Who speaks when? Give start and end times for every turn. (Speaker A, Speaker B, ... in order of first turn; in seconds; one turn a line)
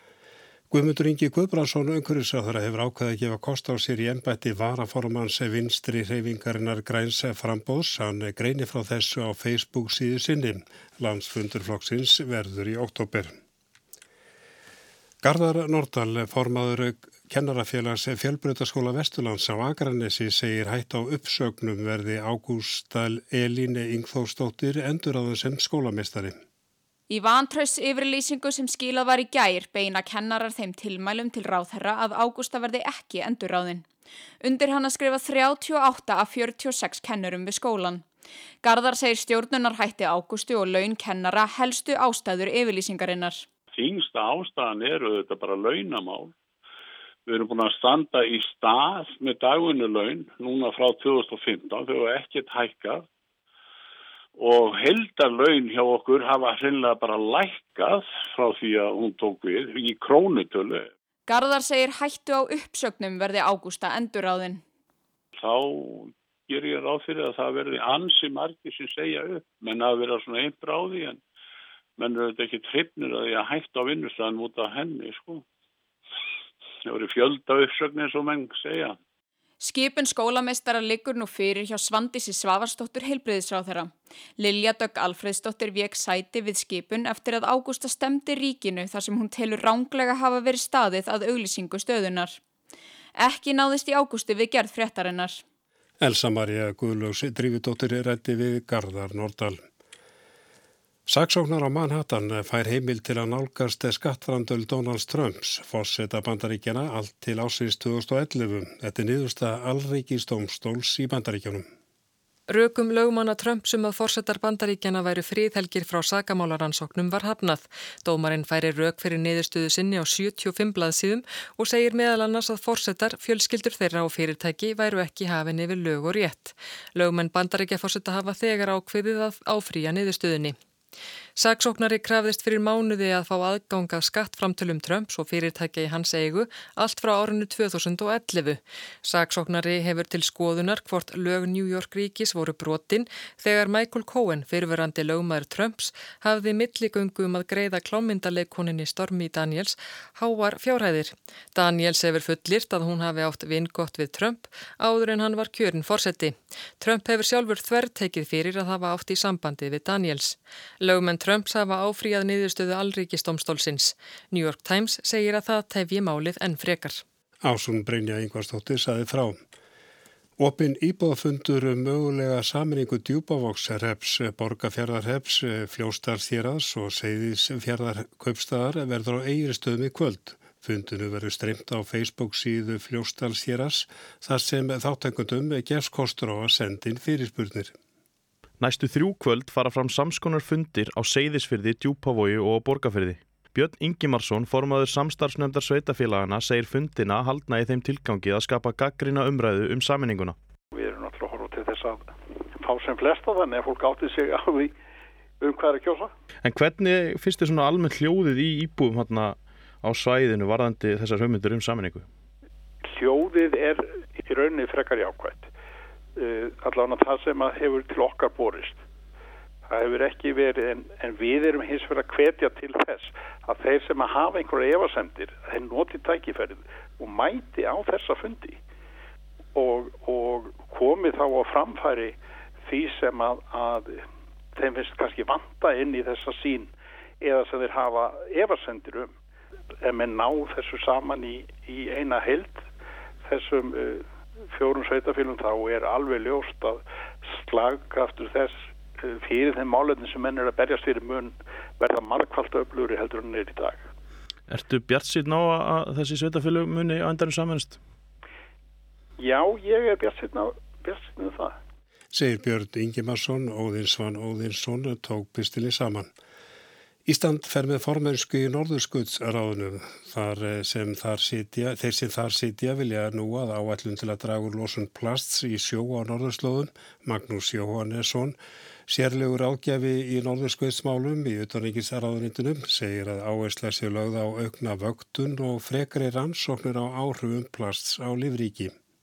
Speaker A: 0.7-13.3
Speaker A: 15.2-26.4
Speaker B: 27.1-33.9
Speaker B: 34.4-38.0
Speaker B: 38.6-43.4
Speaker C: 43.7-46.3
Speaker C: 47.3-53.0
Speaker C: 54.4-60.9
Speaker B: 61.3-64.6
Speaker C: 65.3-71.2
Speaker C: 72.0-75.4
Speaker C: 76.8-79.0
Speaker B: 79.6-92.4
Speaker B: 93.2-95.4
Speaker A: 96.0-99.6
Speaker A: 101.1-111.7
Speaker D: 112.5-130.6
Speaker D: 131.3-167.0
Speaker A: 167.4-169.4
Speaker A: 170.4-187.7
Speaker E: 188.6-200.3
Speaker F: 200.7-204.7
Speaker F: 205.4-206.1
Speaker E: 206.4-212.1
Speaker F: 212.8-215.5
Speaker F: 216.2-218.8
Speaker F: 219.7-228.6
Speaker F: 229.5-234.0
Speaker F: 234.5-236.7
Speaker F: 237.2-239.1
Speaker F: 239.8-242.6
Speaker F: 243.2-246.8
Speaker F: 247.4-253.8
Speaker E: 254.5-257.8
Speaker F: 259.2-261.6
Speaker A: 262.1-266.1
Speaker A: 267.1-278.4
Speaker A: 278.9-288.7